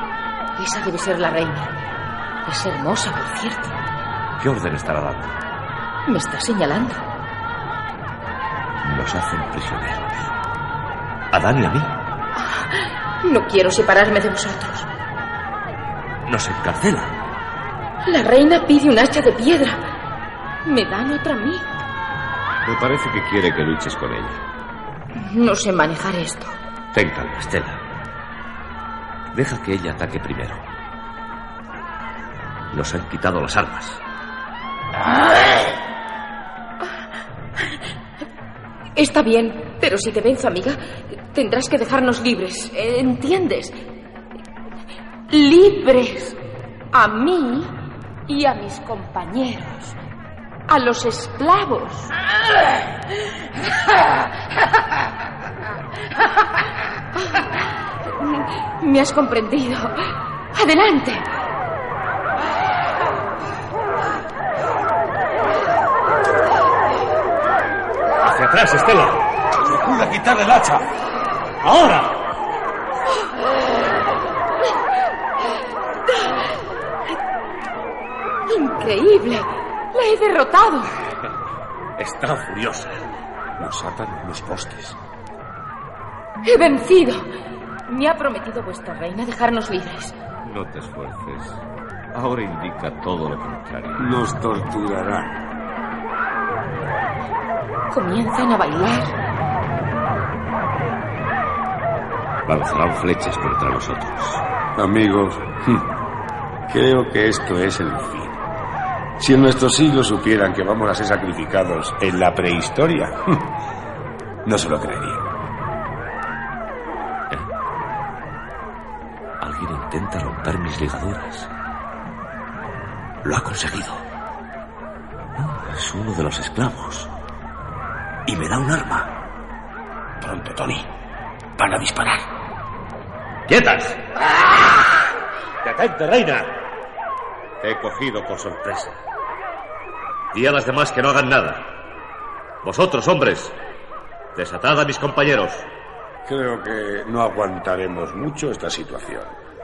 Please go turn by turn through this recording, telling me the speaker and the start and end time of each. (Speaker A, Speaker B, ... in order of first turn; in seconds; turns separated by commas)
Speaker A: 0.6-1.8, Speaker A: 2.4-3.8, Speaker B: 4.4-5.3, Speaker A: 6.0-7.0, Speaker B: 8.8-10.3, Speaker B: 11.3-11.9, Speaker A: 12.4-14.9, Speaker B: 16.2-17.1, Speaker A: 18.0-19.8, Speaker A: 20.6-21.7, Speaker B: 22.6-24.4, Speaker A: 25.1-26.5, Speaker B: 26.9-27.8, Speaker B: 29.3-30.6, Speaker B: 32.7-34.0, Speaker A: 39.0-43.8, Speaker A: 45.3-46.4, Speaker A: 46.9-50.0, Speaker A: 50.7-52.2, Speaker A: 53.1-54.3, Speaker A: 57.1-61.3, Speaker B: 68.2-69.3, Speaker C: 69.6-70.9, Speaker B: 71.6-72.2, Speaker A: 76.0-76.5, Speaker A: 78.5-80.9, Speaker B: 82.0-83.0, Speaker C: 83.6-85.0, Speaker A: 86.4-87.3, Speaker A: 87.9-90.2, Speaker B: 90.4-94.1, Speaker C: 94.0-95.4, Speaker A: 97.9-99.1, Speaker B: 102.5-104.4, Speaker C: 104.8-105.9, Speaker C: 106.7-108.4, Speaker C: 109.2-113.5, Speaker C: 114.4-115.3, Speaker B: 119.4-121.5, Speaker B: 123.2-124.0, Speaker B: 125.3-127.1, Speaker B: 128.2-129.1, Speaker C: 130.2-130.9, Speaker C: 131.6-132.2, Speaker B: 133.5-135.0, Speaker B: 135.6-136.6, Speaker B: 137.6-139.0, Speaker B: 140.3-141.8, Speaker B: 142.6-143.5, Speaker B: 144.3-145.7, Speaker C: 146.2-149.3